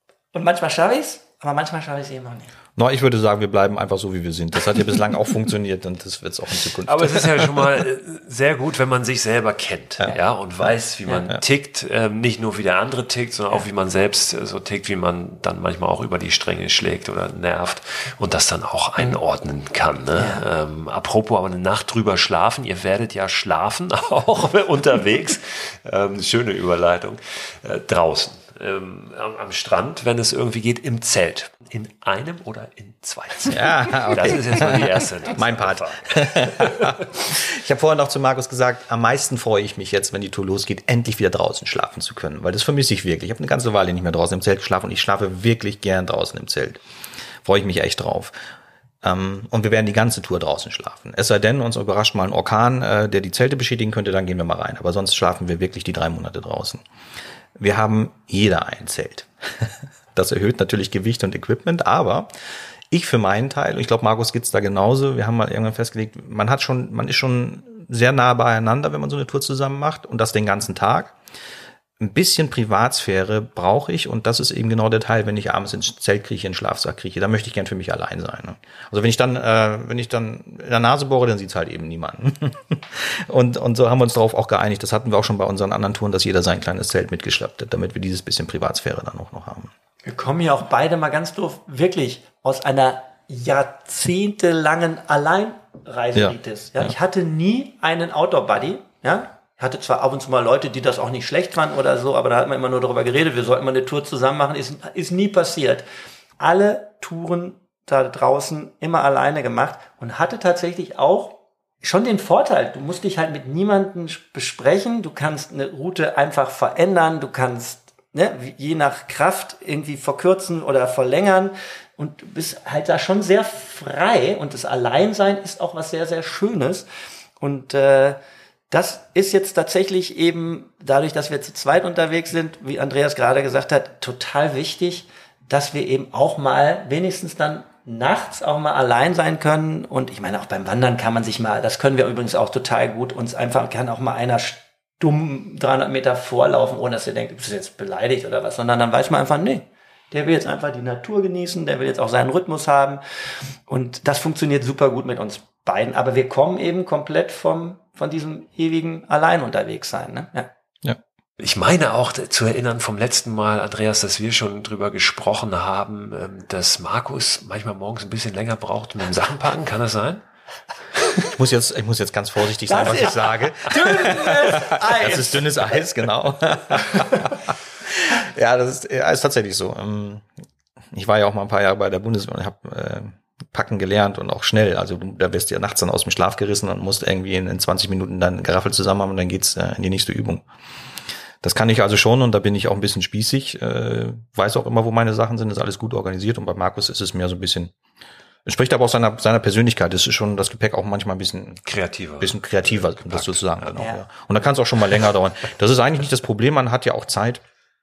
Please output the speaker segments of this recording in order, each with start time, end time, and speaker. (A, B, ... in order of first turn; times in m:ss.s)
0:00.3-0:02.5 A
0:02.8-0:07.6 B
0:06.9-0:36.9 C
0:20.2-0:20.4 A
0:33.5-0:46.8 B
0:47.4-0:48.4 B
0:49.0-0:56.8 B
0:57.6-1:02.3 B
1:02.9-1:11.1 B
1:12.0-1:29.7 B
1:30.0-1:45.8 A
1:36.1-1:36.9 B
1:46.4-2:06.9 A
2:07.4-2:08.2 A
2:08.7-2:33.0 A
2:33.7-2:40.5 A
2:41.4-2:50.2 C
2:51.2-3:00.2 B
2:52.7-2:55.8 A
3:00.9-3:10.4 B
3:11.4-3:17.7 B
3:18.4-3:21.6 B
3:21.6-3:23.6 C
3:22.2-3:27.4 B
3:23.8-3:24.0 A